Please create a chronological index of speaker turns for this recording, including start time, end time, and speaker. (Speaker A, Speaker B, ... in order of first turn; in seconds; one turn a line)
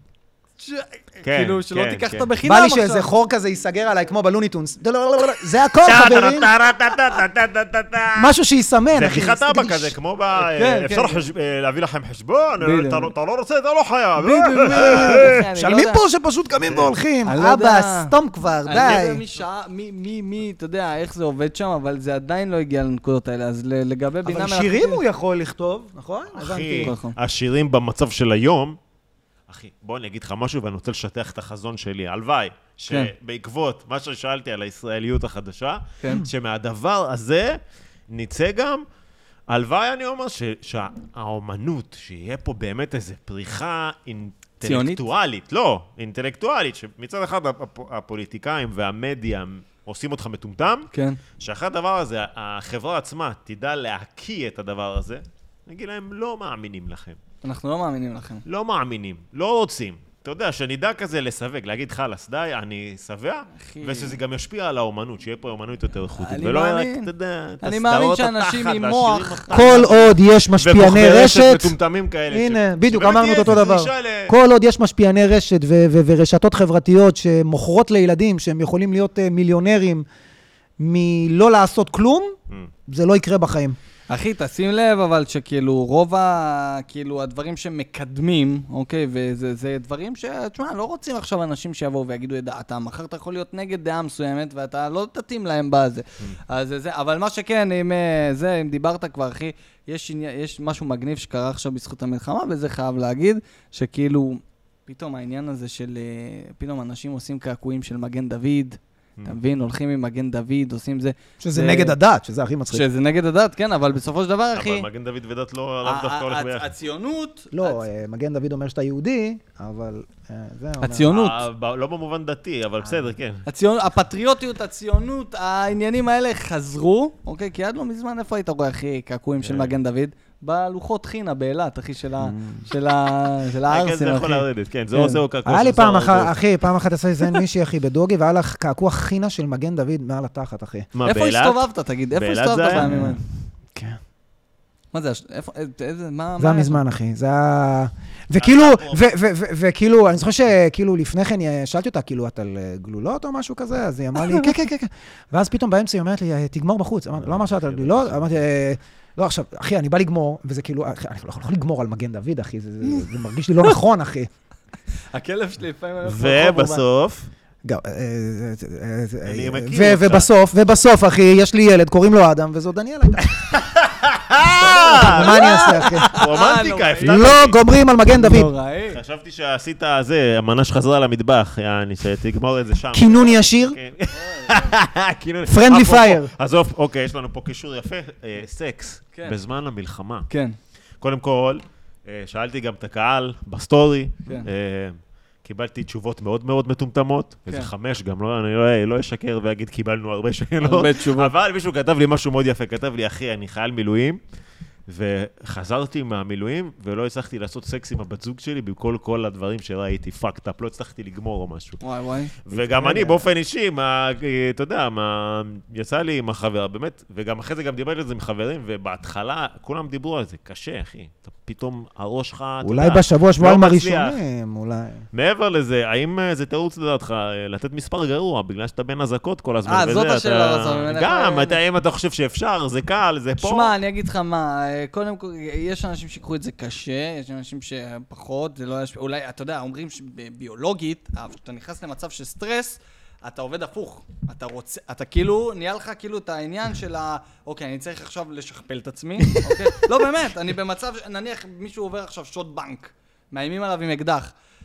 Speaker A: 0.6-3.1
Speaker B: 1.2-2.3
Speaker C: 2.4-6.5
Speaker B: 5.8-8.3
Speaker C: 8.2-9.9
Speaker B: 8.9-15.4
Speaker A: 10.4-11.2
Speaker A: 12.6-13.1
Speaker A: 14.2-16.0
Speaker C: 14.6-19.2
Speaker B: 16.7-16.9
Speaker A: 17.2-18.1
Speaker A: 18.7-25.0
Speaker C: 24.2-26.9
Speaker B: 26.3-28.8
Speaker A: 26.8-27.2
Speaker B: 29.5-38.8
Speaker A: 36.0-36.3
Speaker B: 39.5-57.2
Speaker A: 44.6-45.0
Speaker A: 50.9-51.2
Speaker A: 57.4-58.5
Speaker B: 58.5-74.3
Speaker A: 63.6-64.2
Speaker A: 66.2-67.1
Speaker A: 67.6-70.1
Speaker C: 69.5-71.7
Speaker C: 72.3-80.1
Speaker C: 80.8-82.3
Speaker C: 82.9-83.8
Speaker A: 84.1-112.0
Speaker C: 111.4-112.8
Speaker A: 112.7-114.9
Speaker B: 114.5-116.7
Speaker A: 115.8-117.8
Speaker C: 117.5-121.1
Speaker A: 120.8-121.4
Speaker B: 121.1-123.4
Speaker A: 123.5-134.5
Speaker B: 129.4-129.8
Speaker C: 132.2-132.7
Speaker B: 133.7-136.4
Speaker C: 135.0-140.9
Speaker B: 140.9-143.1
Speaker A: 141.1-143.2
Speaker C: 142.8-143.2
Speaker A: 144.9-146.8
Speaker C: 146.4-164.3
Speaker B: 148.4-149.1
Speaker B: 157.2-158.3
Speaker A: 165.1-166.8
Speaker B: 166.0-167.3
Speaker C: 167.7-173.3
Speaker B: 169.3-170.3
Speaker B: 173.4-177.6
Speaker C: 174.6-176.1
Speaker A: 174.6-177.3
Speaker C: 177.0-178.5
Speaker A: 178.1-179.0
Speaker B: 178.9-190.3
Speaker C: 182.9-183.8
Speaker A: 184.1-184.8
Speaker C: 185.5-186.3
Speaker A: 189.1-189.4
Speaker A: 190.3-190.6
Speaker B: 191.0-204.2
Speaker A: 200.6-201.3
Speaker B: 204.9-211.8
Speaker A: 211.8-213.2
Speaker B: 212.5-224.2
Speaker C: 222.6-225.1
Speaker B: 225.1-233.7
Speaker A: 229.7-231.6
Speaker A: 233.4-254.3